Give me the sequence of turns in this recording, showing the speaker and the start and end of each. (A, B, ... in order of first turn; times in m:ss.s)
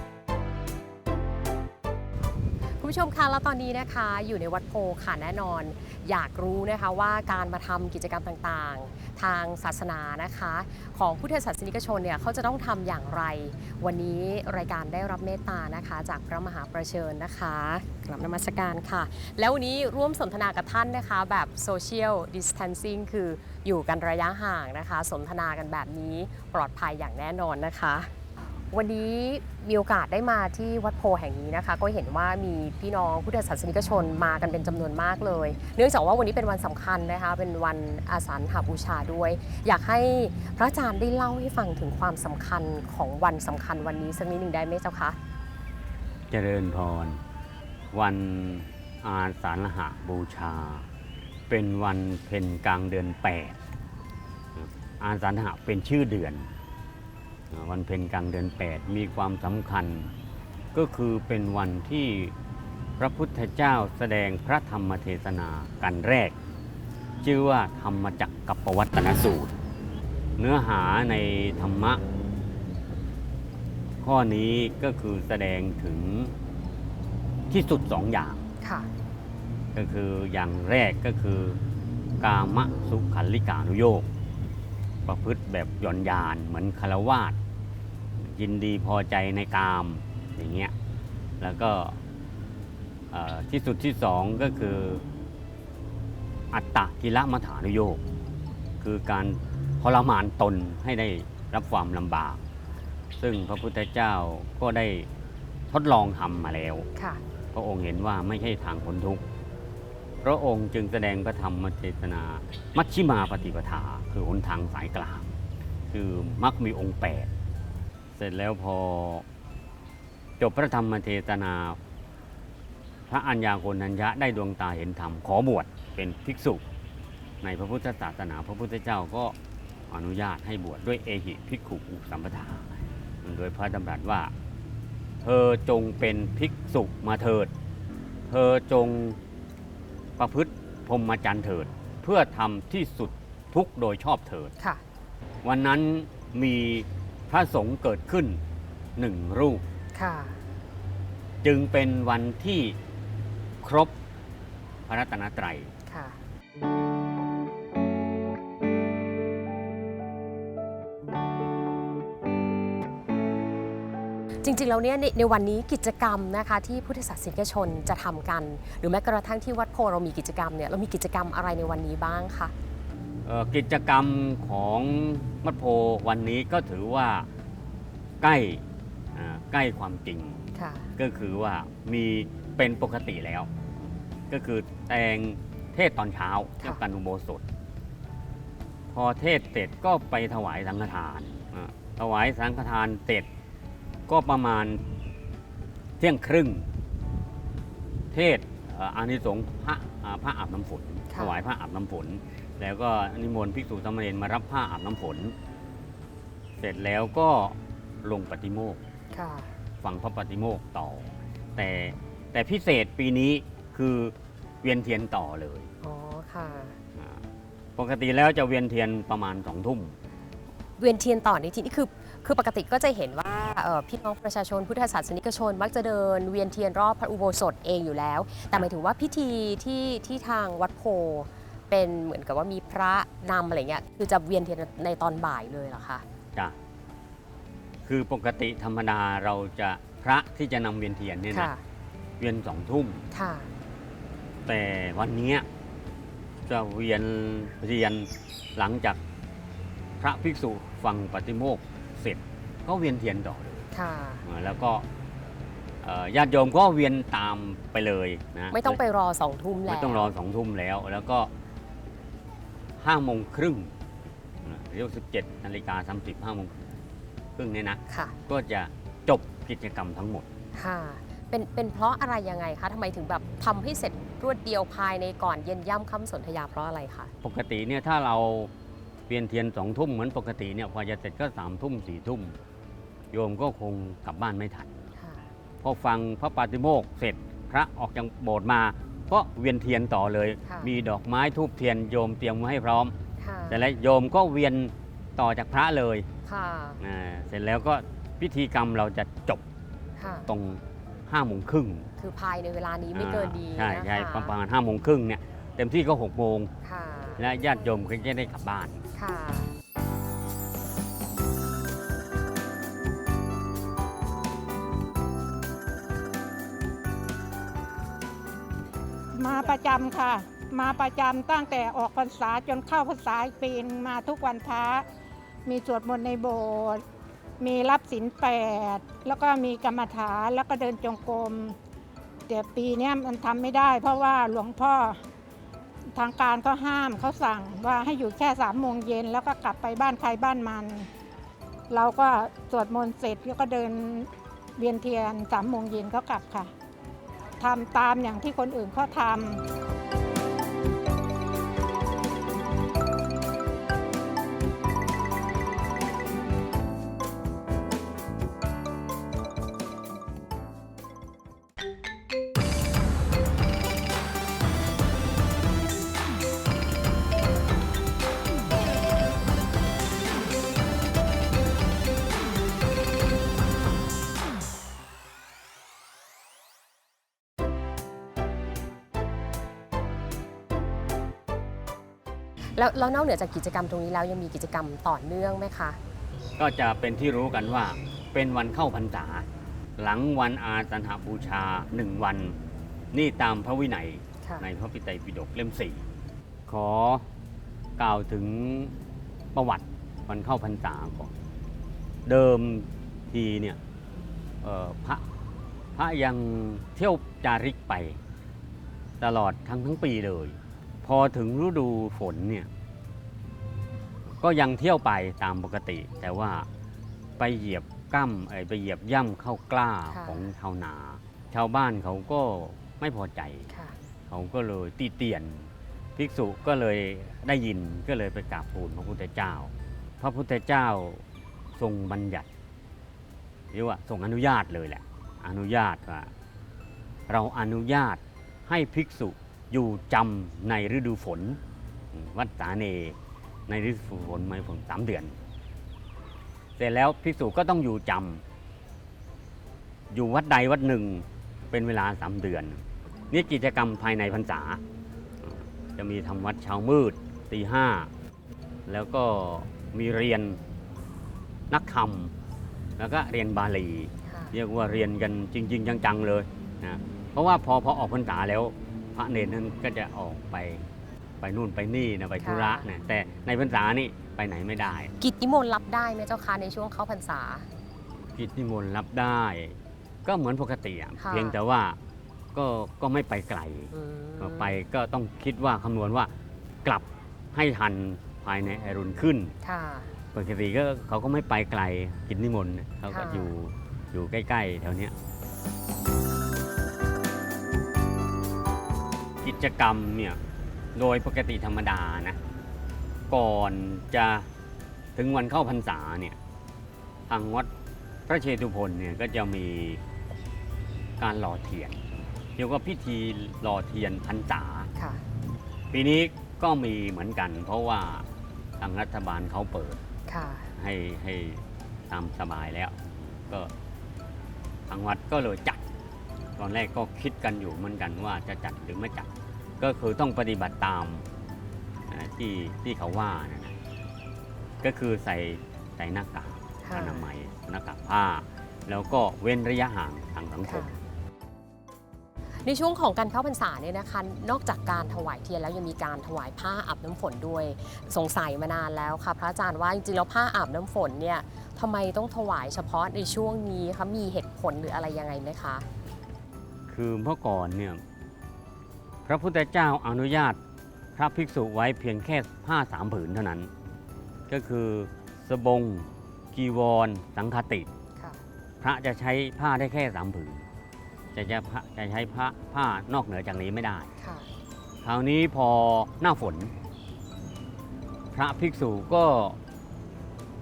0:02.8-0:28.1 A
0:28.7-0:45.2 A
0:46.3-0:47.2 B
0:47.9-0:50.9 B
0:51.5-0:53.6 B
0:54.6-0:56.5 B
0:57.5-1:00.1 B
1:00.7-1:02.3 B
1:03.0-1:06.4 B
1:07.2-1:09.6 B
1:10.4-1:12.0 B
1:14.0-1:16.3 B
1:17.5-1:18.5 B
1:18.6-1:18.9 A
1:19.7-1:21.6 B
1:22.2-1:24.1 B
1:25.1-1:27.4 B
1:28.2-1:30.7 B
1:31.4-1:32.0 B
1:33.1-1:35.0 B
1:36.5-1:38.0 B
1:38.8-1:42.4 B
1:43.2-1:45.1 B
1:45.7-1:46.9 B
1:47.5-1:49.2 B
1:50.2-1:55.3 B
1:55.9-1:57.3 B
1:58.2-1:59.2 B
2:00.4-2:01.8 B
2:03.1-2:06.6 B
2:07.4-2:09.4 B
2:09.9-2:14.3 B
2:15.2-2:17.5 B
2:18.3-2:19.2 B
2:20.2-2:24.5 B
2:25.4-2:28.4 B
2:29.0-2:29.6 B
2:29.9-2:30.4 A
2:31.4-2:32.8 B
2:33.6-2:34.0 B
2:34.9-2:35.7 B
2:35.9-2:36.2 A
2:44.4-2:52.5 A
2:53.2-2:57.3 B
2:58.2-2:58.6 B
2:59.1-3:00.4 B
3:00.6-3:00.9 A
3:01.0-3:03.5 B
3:04.3-3:07.4 B
3:08.9-3:13.3 B
3:14.1-3:14.8 B
3:16.0-3:16.7 B
3:18.1-3:25.3 B
3:21.1-3:21.4 A
3:26.6-3:28.8 B
3:29.1-3:29.5 A
3:29.8-3:35.7 B
3:35.8-3:36.8 A
3:37.0-3:37.2 B
3:37.8-3:40.0 B
3:40.8-3:56.0 A
3:57.8-4:01.5 B
4:01.3-4:01.6 A
4:02.2-4:03.0 B
4:03.1-4:03.5 A
4:04.5-4:05.5 B
4:06.5-4:09.0 B
4:10.0-4:13.7 B
4:13.7-4:14.2 A
4:14.2-4:14.8 B
4:15.8-4:18.8 B
4:18.5-4:20.1 A
4:19.7-4:21.3 B
4:22.8-4:23.7 B
4:24.4-4:26.6 B
4:27.4-4:30.3 B
4:27.9-4:28.1 A
4:30.6-4:37.1 A
4:37.2-4:38.5 B
4:39.1-4:42.4 B
4:43.1-4:44.9 B
4:45.6-4:53.0 B
4:50.4-4:50.7 A
4:53.2-4:53.6 A
4:53.5-4:56.1 B
4:56.2-4:56.8 A
4:56.8-4:59.4 B
5:00.0-5:00.3 A
5:00.3-5:01.9 B
5:02.0-5:04.3 A
5:02.9-5:06.5 B
5:06.6-5:07.2 A
5:07.2-5:08.9 B
5:09.0-5:09.5 A
5:19.1-5:24.9 C
5:25.5-5:26.8 C
5:27.4-5:31.6 C
5:32.3-5:35.0 C
5:36.0-5:40.9 C
5:41.7-5:46.5 C
5:47.4-5:49.4 C
6:22.6-6:25.8 A
6:26.4-6:29.3 B
6:29.8-6:32.4 B
6:32.9-6:35.9 B
6:36.5-6:37.1 B
6:37.8-6:38.8 B
6:39.3-6:41.1 B
6:42.0-6:43.6 B
6:44.4-6:45.1 B
6:45.8-6:48.0 B
6:49.0-6:52.5 B
6:54.2-6:56.5 B
6:57.2-7:03.5 B
6:59.9-7:00.2 A
7:03.5-7:03.8 A
7:04.1-7:11.0 B
7:11.6-7:12.3 B
7:13.5-7:16.1 B
7:17.1-7:21.4 B
7:21.9-7:25.2 B
7:26.6-7:28.2 B
7:29.9-7:34.6 B
7:35.2-7:37.9 B
7:38.7-7:40.4 B
7:41.5-7:42.1 B
7:42.8-7:50.7 B
7:44.1-7:44.4 A
7:51.2-7:54.9 B
7:52.2-7:52.7 A
7:55.0-7:57.5 A
7:58.1-8:01.8 B
8:01.0-8:01.4 A
8:02.3-8:06.1 B
8:03.7-8:04.6 A
8:06.6-8:09.3 B
8:09.4-8:09.9 A
8:10.1-8:14.9 B
8:12.9-8:13.3 A
8:19.2-8:20.2 B
8:20.8-8:22.2 B
8:23.1-8:24.3 B
8:25.0-8:26.2 B
8:27.1-8:27.5 B
8:28.1-8:29.8 B
8:31.0-8:34.7 B
8:34.8-8:35.0 A
8:35.7-8:38.1 B
8:38.6-8:39.8 B
8:40.1-8:40.5 A
8:40.6-8:43.5 B
8:44.7-8:45.6 B
8:46.4-8:51.0 B
8:51.9-8:53.6 B
8:54.6-9:00.8 B
8:56.6-8:57.1 A
9:00.5-9:00.8 A
9:02.4-9:15.7 A
9:16.7-9:17.8 B
9:19.0-9:20.4 B
9:21.0-9:23.5 B
9:24.3-9:27.7 B
9:28.6-9:30.5 B
9:31.1-9:33.9 B
9:34.0-9:34.3 A
9:34.8-9:36.5 B
9:38.1-9:39.4 B